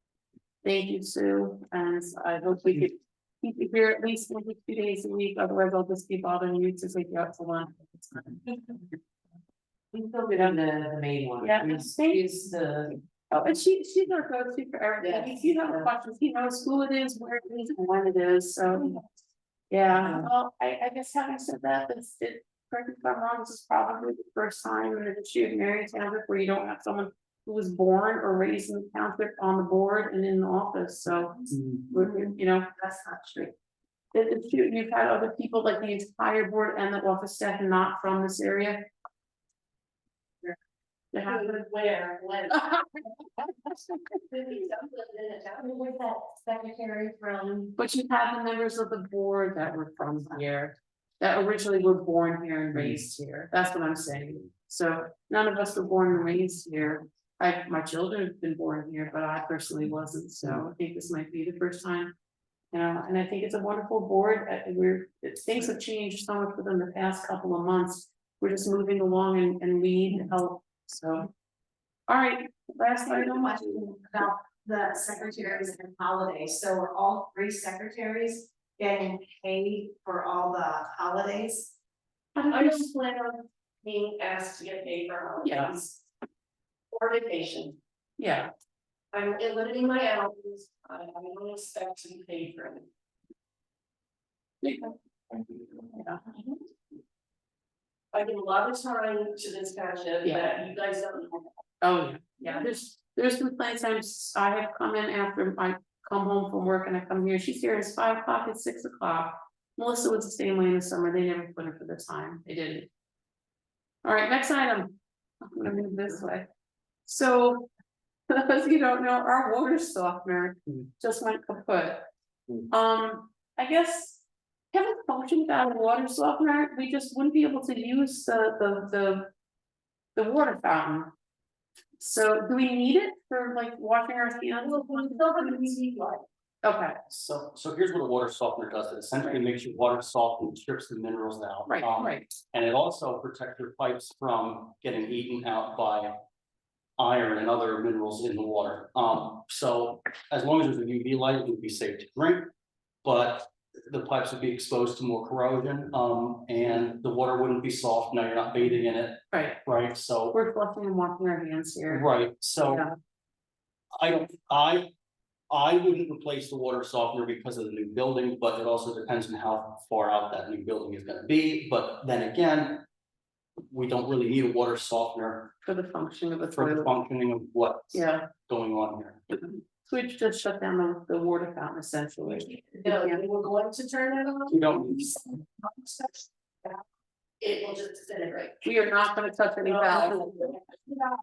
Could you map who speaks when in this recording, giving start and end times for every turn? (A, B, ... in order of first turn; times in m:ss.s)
0:00.6-0:08.4 A
0:09.9-0:12.0 B
0:11.4-0:12.3 A
0:13.3-0:19.0 A
0:15.0-0:15.8 B
0:19.7-0:32.7 A
0:32.8-0:33.5 B
0:34.1-0:38.9 A
0:41.1-0:41.6 A
0:41.2-0:42.7 B
0:42.5-0:42.8 A
0:44.1-0:47.7 B
0:47.8-1:02.1 A
1:02.7-1:11.3 A
1:12.1-1:13.9 A
1:13.3-1:21.7 C
1:22.3-1:22.9 A
1:22.5-1:26.0 B
1:25.4-1:25.8 A
1:26.9-1:27.8 B
1:28.2-1:28.5 A
1:29.1-1:32.9 B
1:34.6-1:34.9 A
1:35.3-1:35.6 B
1:35.9-1:36.2 A
1:36.2-1:36.6 B
1:38.1-1:41.5 B
1:41.8-1:52.9 A
1:54.0-1:56.5 A
1:57.0-1:57.7 A
1:58.3-2:02.1 A
2:02.7-2:09.3 A
2:10.2-2:11.1 A
2:12.0-2:15.8 A
2:14.6-2:16.2 B
2:16.6-2:17.0 A
2:17.1-2:26.1 D
2:21.7-2:22.3 A
2:27.0-2:32.5 D
2:33.0-2:40.4 D
2:39.3-2:39.6 A
2:40.3-2:42.1 A
2:41.9-2:42.9 D
2:42.6-2:42.9 A
2:44.0-2:44.9 D
2:45.5-2:52.8 D
2:53.7-2:55.5 D
2:55.6-2:56.9 A
2:56.5-2:59.2 D
2:57.9-2:58.3 A
2:59.8-3:03.2 A
3:02.3-3:06.8 B
3:04.5-3:05.2 D
3:07.4-3:08.6 B
3:08.6-3:10.3 A
3:09.6-3:11.0 B
3:10.1-3:10.5 D